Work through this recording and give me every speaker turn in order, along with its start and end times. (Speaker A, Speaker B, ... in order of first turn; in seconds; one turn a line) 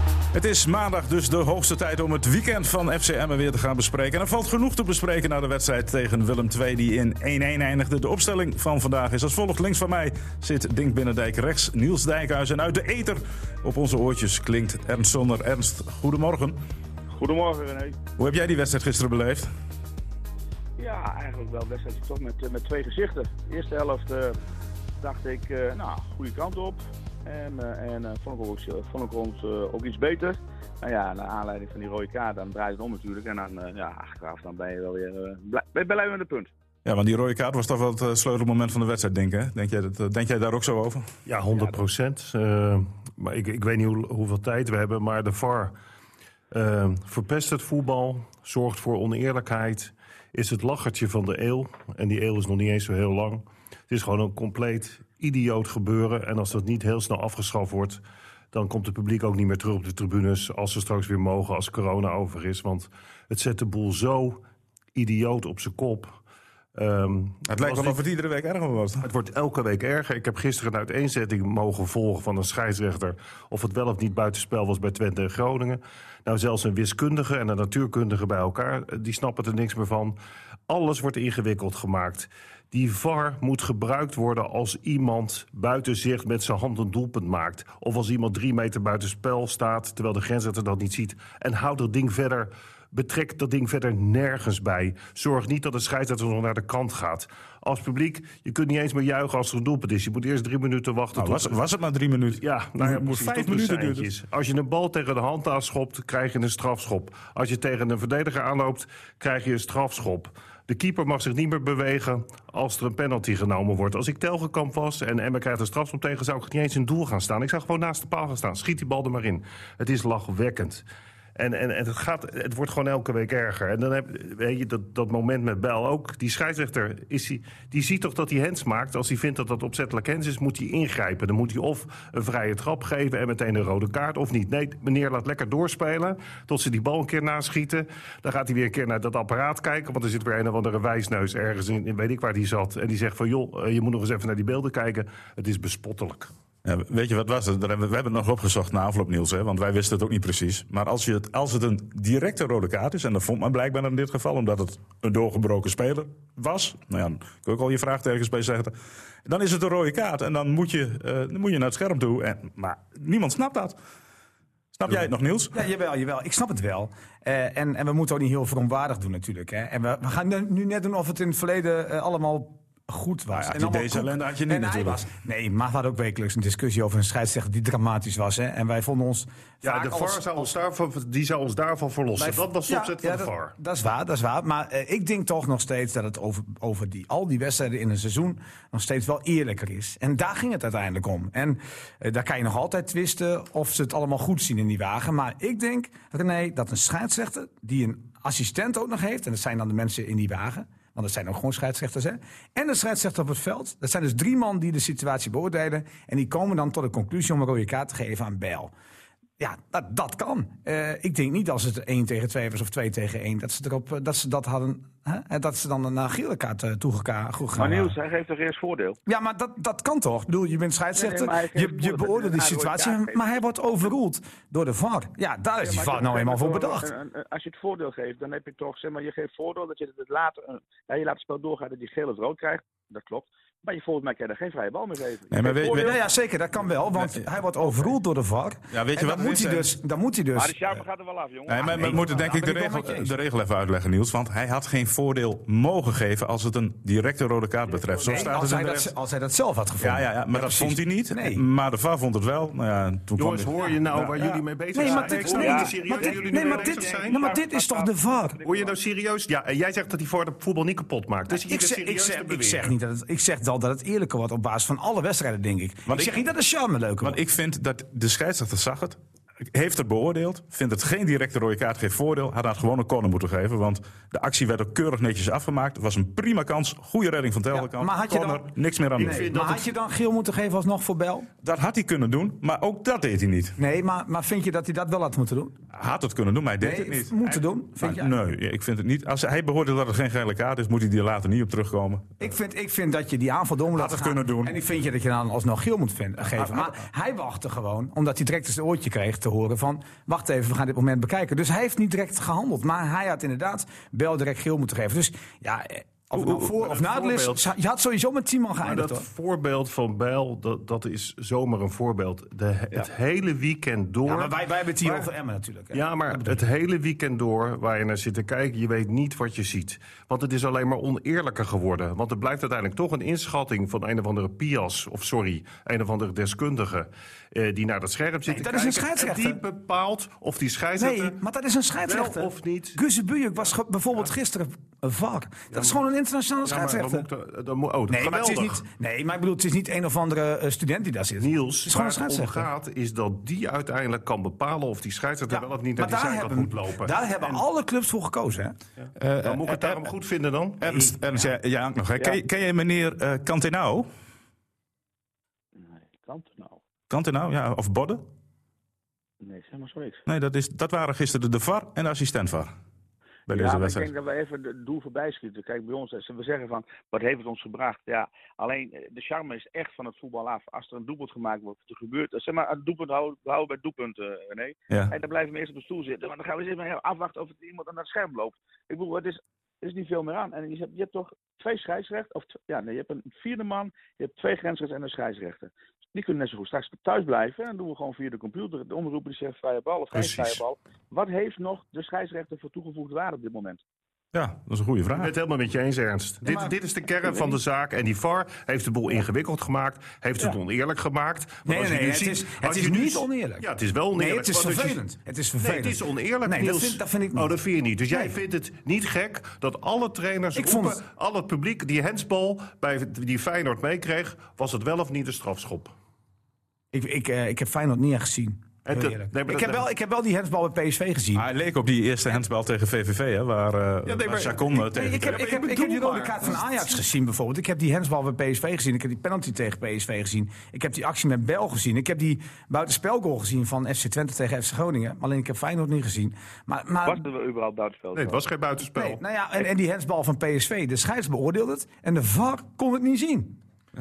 Speaker A: 0.3-16.6
Speaker B: 17.1-18.0
Speaker A: 18.2-19.5
Speaker B: 20.8-24.4
Speaker B: 25.0-36.5
Speaker A: 36.8-41.1
Speaker C: 41.2-45.7
Speaker C: 46.5-58.0
Speaker C: 58.5-64.4
Speaker C: 64.9-66.2
Speaker C: 66.7-68.0
Speaker A: 67.5-69.0
Speaker C: 69.0-80.2
Speaker C: 80.7-101.6
Speaker A: 101.1-104.1
Speaker C: 102.3-120.8
Speaker C: 121.3-146.3
Speaker A: 146.6-158.7
Speaker A: 159.2-163.8
Speaker A: 164.7-165.6
Speaker D: 165.5-180.3
Speaker A: 173.3-175.1
Speaker C: 179.6-183.5
Speaker D: 182.2-208.7
Speaker D: 209.4-217.9
Speaker B: 217.6-219.0
Speaker D: 219.1-226.9
Speaker B: 220.9-223.2
Speaker B: 225.6-236.0
Speaker A: 235.3-235.9
Speaker D: 235.7-240.8
Speaker A: 236.9-237.2
Speaker A: 238.7-239.7
Speaker B: 240.3-242.0
Speaker A: 241.5-248.9
Speaker D: 241.6-243.1
Speaker B: 247.7-248.4
Speaker D: 248.0-251.4
Speaker A: 249.8-254.4
Speaker C: 253.2-257.3
Speaker D: 254.7-258.4
Speaker B: 254.8-258.8
Speaker C: 258.4-262.7
Speaker D: 261.3-267.2
Speaker A: 265.9-266.2
Speaker A: 267.0-269.0
Speaker A: 269.5-279.3
Speaker D: 277.5-281.3
Speaker C: 278.9-279.6
Speaker A: 281.4-283.6
Speaker D: 283.6-285.6
Speaker A: 285.7-292.2
Speaker D: 286.6-288.1
Speaker D: 292.2-309.1
Speaker A: 293.8-294.6
Speaker A: 296.3-296.7
Speaker A: 306.1-306.4
Speaker C: 306.4-307.5
Speaker C: 308.6-315.1
Speaker D: 314.0-316.4
Speaker C: 315.7-331.1
Speaker D: 328.2-329.4
Speaker D: 330.8-337.1
Speaker C: 331.9-332.8
Speaker C: 335.5-335.8
Speaker C: 336.4-338.6
Speaker D: 337.9-342.5
Speaker C: 341.2-347.4
Speaker D: 345.3-348.6
Speaker C: 348.8-350.9
Speaker A: 349.0-349.9
Speaker A: 350.6-353.9
Speaker B: 355.6-356.6
Speaker A: 356.9-358.1
Speaker B: 359.2-360.0
Speaker A: 360.1-362.5
Speaker A: 363.3-363.9
Speaker B: 363.3-393.6
Speaker C: 389.9-390.4
Speaker A: 394.1-395.1
Speaker C: 394.9-404.8
Speaker D: 396.2-396.5
Speaker D: 401.4-407.3
Speaker C: 405.4-415.7
Speaker D: 407.9-408.1
Speaker D: 410.3-410.8
Speaker D: 416.7-421.3
Speaker C: 418.6-419.6
Speaker A: 421.1-425.2
Speaker C: 423.9-426.4
Speaker D: 424.0-437.0
Speaker B: 436.8-438.2
Speaker C: 437.9-439.0
Speaker D: 438.7-443.4